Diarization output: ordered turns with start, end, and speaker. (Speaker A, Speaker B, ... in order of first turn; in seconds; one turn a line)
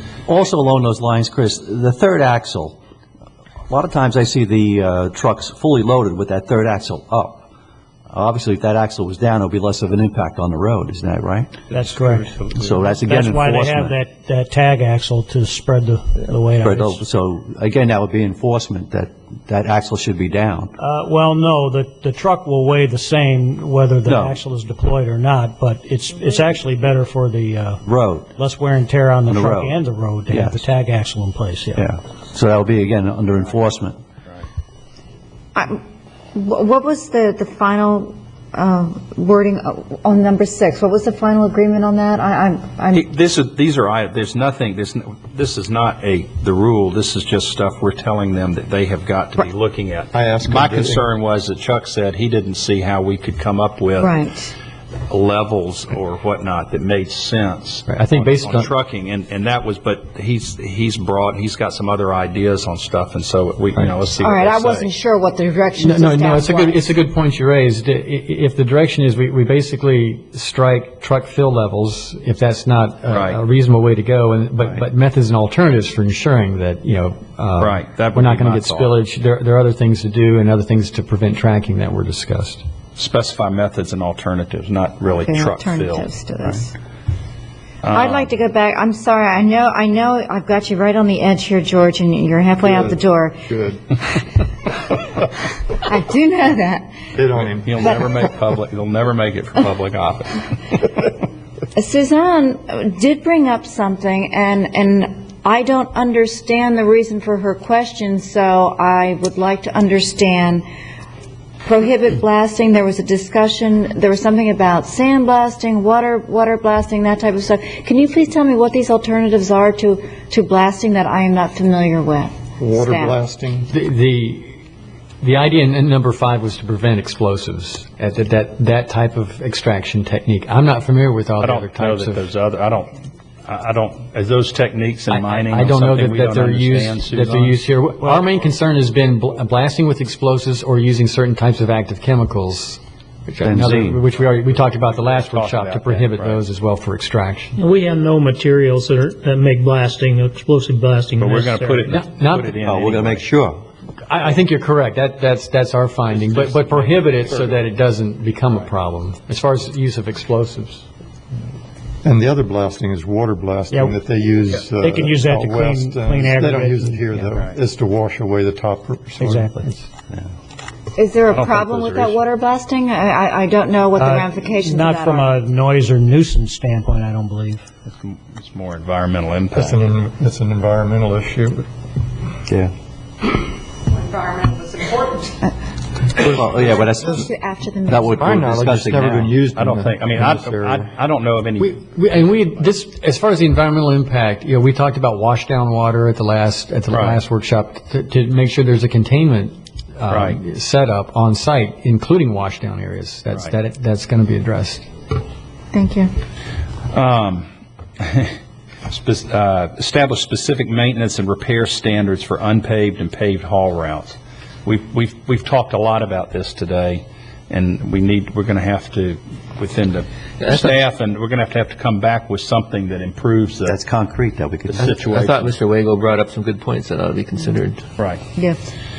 Speaker A: 0.3-2.8
Speaker A: 3.7-7.4
Speaker A: 8.1-11.7
Speaker B: 11.7-17.0
Speaker A: 12.4-14.0
Speaker A: 16.6-20.7
Speaker B: 20.8-27.8
Speaker A: 24.0-24.4
Speaker A: 27.8-28.3
Speaker B: 28.3-31.9
Speaker A: 29.3-30.6
Speaker A: 31.8-34.0
Speaker C: 36.3-43.0
Speaker D: 42.9-54.2
Speaker E: 50.1-51.1
Speaker C: 54.0-54.5
Speaker D: 55.1-64.9
Speaker F: 57.9-58.7
Speaker C: 64.2-66.8
Speaker F: 65.8-82.6
Speaker D: 73.1-73.4
Speaker D: 77.6-79.0
Speaker D: 83.0-86.6
Speaker C: 85.1-86.7
Speaker D: 87.8-88.3
Speaker C: 87.9-93.4
Speaker E: 92.6-93.8
Speaker C: 94.8-96.9
Speaker E: 97.1-98.0
Speaker D: 97.4-100.8
Speaker C: 97.8-98.2
Speaker C: 101.7-110.6
Speaker C: 111.6-123.2
Speaker E: 122.6-123.7
Speaker F: 123.7-124.6
Speaker F: 125.2-132.3
Speaker D: 131.4-133.0
Speaker D: 133.5-137.6
Speaker F: 135.1-147.6
Speaker A: 143.4-144.0
Speaker D: 144.2-146.4
Speaker G: 147.6-151.8
Speaker D: 151.2-153.2
Speaker F: 151.9-152.5
Speaker A: 152.6-153.6
Speaker F: 154.1-160.8
Speaker D: 156.2-156.9
Speaker E: 162.0-169.5
Speaker B: 163.7-163.9
Speaker B: 164.6-167.1
Speaker B: 169.2-169.7
Speaker C: 170.9-175.3
Speaker D: 171.3-172.2
Speaker B: 173.9-177.6
Speaker D: 177.8-179.8
Speaker E: 179.5-181.7
Speaker E: 186.2-186.8
Speaker A: 186.2-187.3
Speaker C: 186.6-188.3
Speaker A: 187.9-189.4
Speaker E: 188.2-190.9
Speaker D: 189.5-192.2
Speaker F: 191.6-204.9
Speaker D: 196.9-197.2
Speaker D: 200.1-200.4
Speaker C: 205.7-206.1
Speaker D: 206.9-207.5
Speaker D: 208.0-223.8
Speaker A: 223.7-224.8
Speaker D: 224.7-225.5
Speaker H: 225.1-227.8
Speaker C: 228.3-228.7